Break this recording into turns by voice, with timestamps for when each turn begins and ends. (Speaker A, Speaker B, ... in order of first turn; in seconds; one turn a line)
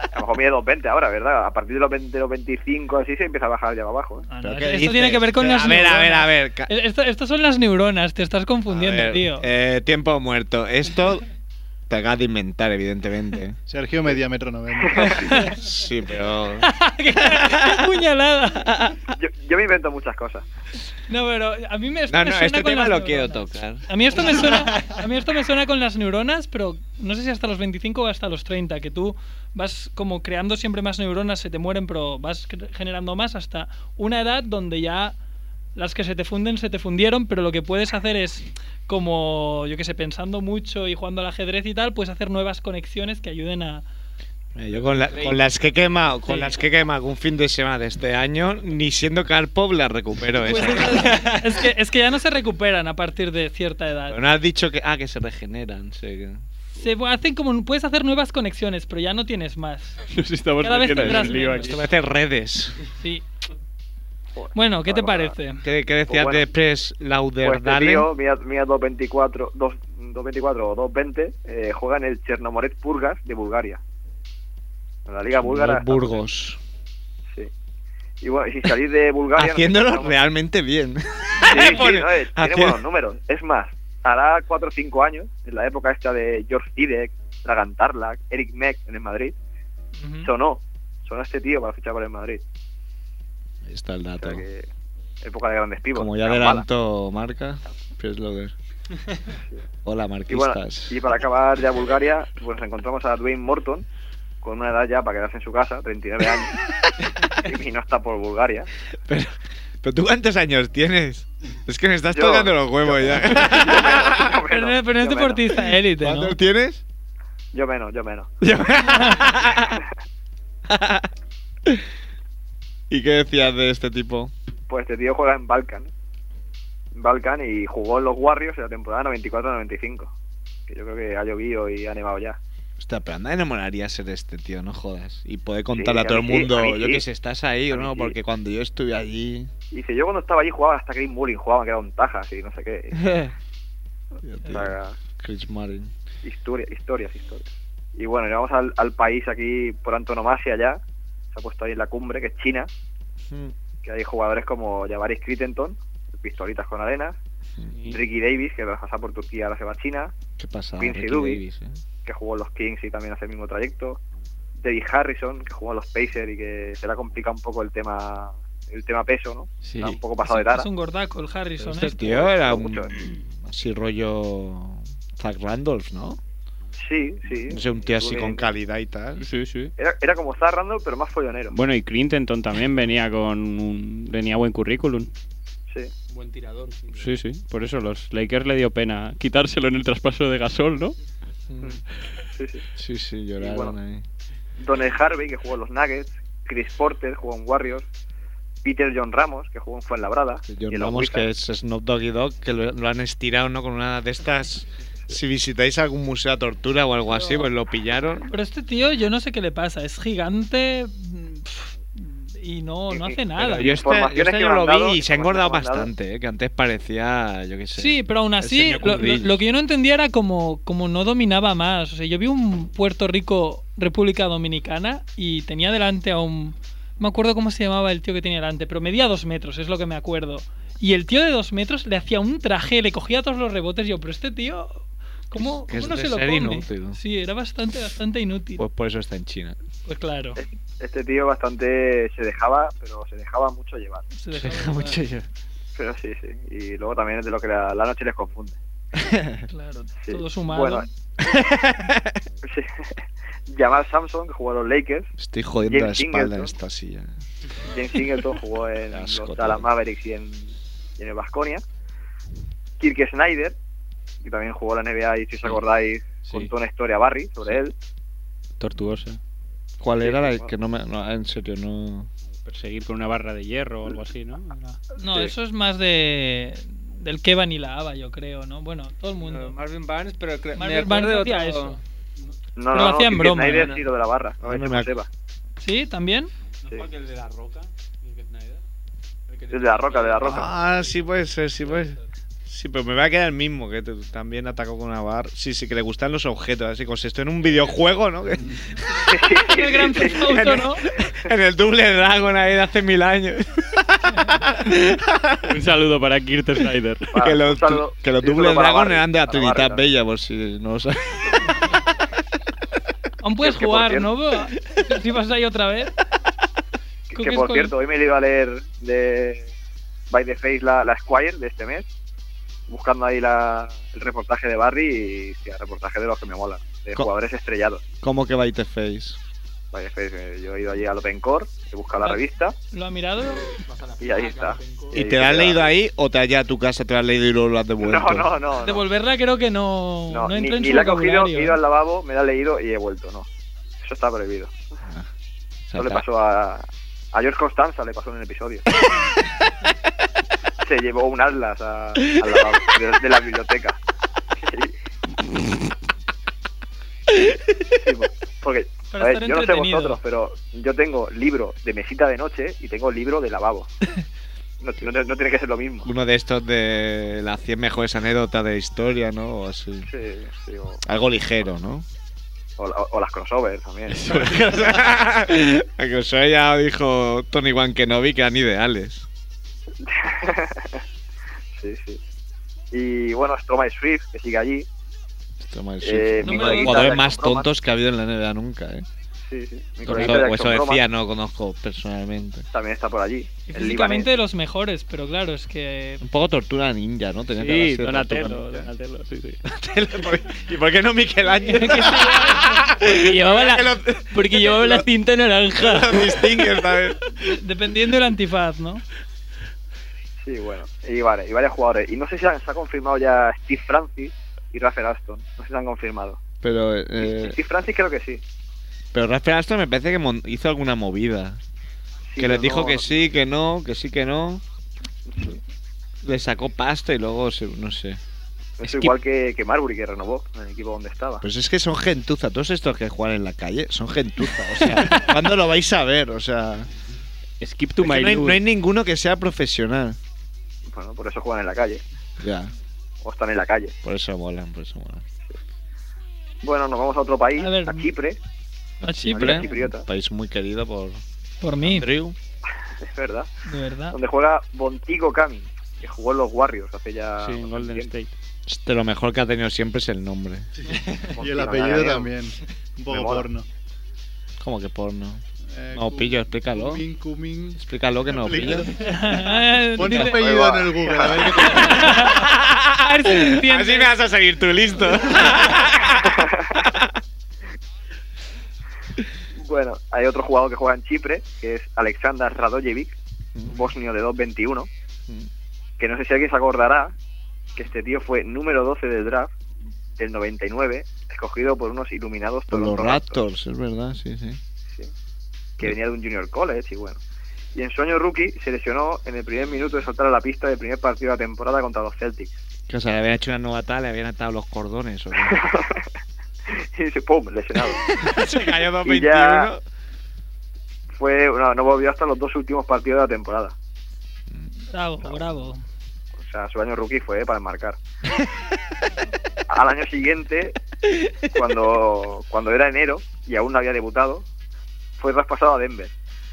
Speaker A: 0.1-4.3
Speaker B: 4.3-9.4
Speaker C: 4.4-6.7
Speaker C: 8.7-11.2
Speaker C: 11.9-13.6
Speaker D: 13.7-15.1
Speaker A: 14.8-15.2
Speaker B: 15.0-15.6
Speaker C: 15.3-18.0
Speaker B: 16.6-18.9
Speaker A: 19.1-20.4
Speaker B: 21.1-35.1
Speaker C: 22.1-24.9
Speaker B: 35.8-43.8
Speaker C: 44.5-51.3
Speaker E: 44.7-45.4
Speaker B: 50.4-54.2
Speaker C: 54.1-56.5
Speaker B: 56.8-60.0
Speaker F: 60.1-61.8
Speaker B: 60.6-61.8
Speaker C: 60.9-62.8
Speaker B: 63.0-63.2
Speaker A: 64.3-65.3
Speaker B: 64.5-65.6
Speaker C: 65.6-68.1
Speaker A: 66.1-66.4
Speaker A: 67.4-73.8
Speaker A: 75.0-76.2
Speaker C: 75.3-76.6
Speaker A: 78.2-80.2
Speaker C: 79.3-82.8
Speaker B: 81.4-81.8
Speaker A: 81.4-89.3
Speaker B: 90.0-90.3
Speaker A: 90.2-92.4
Speaker C: 93.6-94.4
Speaker A: 94.2-94.7
Speaker A: 95.2-96.6
Speaker C: 95.9-98.5
Speaker C: 99.8-101.0
Speaker A: 100.3-103.8
Speaker A: 104.4-106.5
Speaker A: 107.3-108.7
Speaker C: 109.1-114.3
Speaker A: 112.1-115.6
Speaker B: 114.5-116.4
Speaker C: 116.0-116.8
Speaker A: 117.5-118.3
Speaker C: 118.4-119.8
Speaker B: 118.9-119.2
Speaker C: 120.7-121.1
Speaker C: 122.9-124.3
Speaker A: 124.7-125.9
Speaker A: 126.9-130.1
Speaker A: 130.7-132.4
Speaker C: 132.8-139.5
Speaker A: 135.7-137.0
Speaker A: 137.7-138.1
Speaker A: 139.7-143.0
Speaker C: 143.0-143.3
Speaker C: 144.2-145.9
Speaker A: 144.5-144.9
Speaker A: 146.2-150.8
Speaker A: 151.3-152.7
Speaker C: 153.3-153.5
Speaker A: 153.8-157.2
Speaker F: 157.7-158.0
Speaker A: 157.9-160.1
Speaker C: 160.4-161.8
Speaker A: 160.8-161.4
Speaker A: 162.0-164.0
Speaker A: 164.6-170.7
Speaker F: 169.6-170.0
Speaker B: 170.2-172.2
Speaker C: 171.6-176.2
Speaker A: 172.0-173.0
Speaker A: 176.8-178.4
Speaker C: 177.5-179.2
Speaker F: 179.2-179.7
Speaker A: 179.8-181.5
Speaker F: 181.5-185.1
Speaker E: 186.1-187.1
Speaker F: 186.9-190.9
Speaker C: 191.5-191.8
Speaker A: 192.3-192.6
Speaker C: 192.7-194.0
Speaker A: 193.4-193.7
Speaker A: 194.6-197.9
Speaker A: 198.6-201.2
Speaker C: 200.4-208.3
Speaker B: 208.3-213.8
Speaker A: 212.9-215.9
Speaker C: 213.4-219.4
Speaker B: 217.8-238.6
Speaker C: 235.3-237.0
Speaker C: 238.6-239.6
Speaker B: 239.9-240.4
Speaker A: 240.4-244.1
Speaker B: 244.1-245.0
Speaker C: 244.3-245.3
Speaker A: 245.7-248.6
Speaker C: 248.9-249.4
Speaker B: 249.5-250.9
Speaker A: 250.0-250.9
Speaker C: 251.2-252.2
Speaker A: 252.4-252.9
Speaker A: 253.5-255.1
Speaker C: 255.2-257.1
Speaker A: 255.7-256.5
Speaker A: 257.7-261.6
Speaker C: 258.9-259.7
Speaker A: 262.8-263.6
Speaker A: 264.2-267.7
Speaker F: 268.6-269.2
Speaker C: 269.8-272.1
Speaker A: 270.0-270.5
Speaker F: 272.5-274.8
Speaker B: 275.0-279.6
Speaker G: 279.2-281.8
Speaker B: 280.5-281.8
Speaker A: 282.6-285.1
Speaker B: 282.7-283.7
Speaker C: 284.4-284.9
Speaker B: 285.6-286.3
Speaker E: 286.6-288.6
Speaker E: 289.3-292.0
Speaker A: 289.5-290.5
Speaker C: 290.2-299.1
Speaker A: 299.1-300.6
Speaker B: 299.5-300.8
Speaker C: 300.0-305.5
Speaker F: 305.4-307.1
Speaker A: 307.1-309.9
Speaker C: 307.1-311.8
Speaker B: 313.2-315.9
Speaker A: 313.4-314.1
Speaker A: 317.1-319.5
Speaker B: 317.1-317.7
Speaker A: 320.1-321.9
Speaker A: 322.7-327.8
Speaker C: 328.0-329.2
Speaker A: 329.7-332.6
Speaker B: 332.0-333.6
Speaker E: 333.5-335.3
Speaker A: 334.0-335.7
Speaker C: 334.9-338.3
Speaker A: 337.8-338.9
Speaker B: 338.6-341.6
Speaker A: 340.1-343.3
Speaker A: 343.8-344.5
Speaker C: 345.7-346.0
Speaker A: 345.8-348.6
Speaker A: 350.6-353.8
Speaker A: 354.4-354.7
Speaker A: 357.7-363.7
Speaker B: 358.9-360.0
Speaker A: 364.6-365.9
Speaker C: 365.8-369.9
Speaker A: 369.9-370.8
Speaker C: 370.8-371.8
Speaker A: 372.6-374.2
Speaker F: 373.9-374.4
Speaker C: 374.1-379.1
Speaker A: 379.8-380.8
Speaker A: 381.6-382.0
Speaker A: 382.7-384.7
Speaker C: 385.4-388.9
Speaker A: 385.8-387.5
Speaker B: 386.2-387.0
Speaker A: 389.3-390.8
Speaker F: 389.8-390.2
Speaker C: 389.9-392.5
Speaker A: 392.5-394.1
Speaker B: 393.5-396.0
Speaker C: 396.0-398.7
Speaker F: 397.4-399.4
Speaker C: 399.4-404.9
Speaker B: 401.4-402.6
Speaker F: 402.9-406.2
Speaker C: 405.5-407.1
Speaker B: 407.2-408.8
Speaker A: 410.2-416.2
Speaker C: 416.4-417.4
Speaker A: 417.0-418.2
Speaker C: 418.9-421.4
Speaker A: 422.1-423.1
Speaker C: 422.2-424.4
Speaker A: 425.1-425.4
Speaker C: 426.0-428.0
Speaker A: 428.6-431.2
Speaker C: 428.6-428.9
Speaker C: 431.2-436.7
Speaker F: 437.4-438.4
Speaker C: 437.8-440.0
Speaker A: 440.7-441.8
Speaker C: 442.2-442.5
Speaker A: 443.0-443.7
Speaker C: 443.8-445.0
Speaker A: 446.4-448.2
Speaker B: 447.4-447.9
Speaker C: 448.8-451.0
Speaker B: 448.8-449.5
Speaker A: 449.1-449.9
Speaker B: 451.4-451.9
Speaker C: 451.6-452.2
Speaker A: 452.8-453.3
Speaker B: 453.4-454.0
Speaker A: 453.9-457.9
Speaker F: 457.2-458.1
Speaker C: 458.4-460.5
Speaker D: 460.7-463.4
Speaker A: 461.1-462.1
Speaker A: 462.9-463.2
Speaker C: 464.4-466.8
Speaker D: 465.5-467.6
Speaker C: 467.5-468.7
Speaker D: 468.1-472.0
Speaker B: 468.8-470.2
Speaker A: 470.0-471.6
Speaker B: 471.5-473.9
Speaker C: 471.5-476.9
Speaker A: 476.0-476.5
Speaker A: 479.4-482.9
Speaker C: 483.4-483.7
Speaker A: 483.5-484.7
Speaker A: 485.8-486.9
Speaker A: 487.6-489.3
Speaker A: 490.0-493.2
Speaker C: 492.5-494.4
Speaker A: 495.6-497.0
Speaker A: 497.5-502.4
Speaker C: 502.7-505.4
Speaker A: 505.2-505.8
Speaker A: 506.5-507.8
Speaker C: 507.9-509.6
Speaker A: 508.8-509.5
Speaker A: 510.9-513.5
Speaker B: 514.7-515.6
Speaker C: 515.0-515.4
Speaker A: 516.2-517.8
Speaker A: 519.5-520.6
Speaker A: 521.3-524.2
Speaker A: 525.0-525.9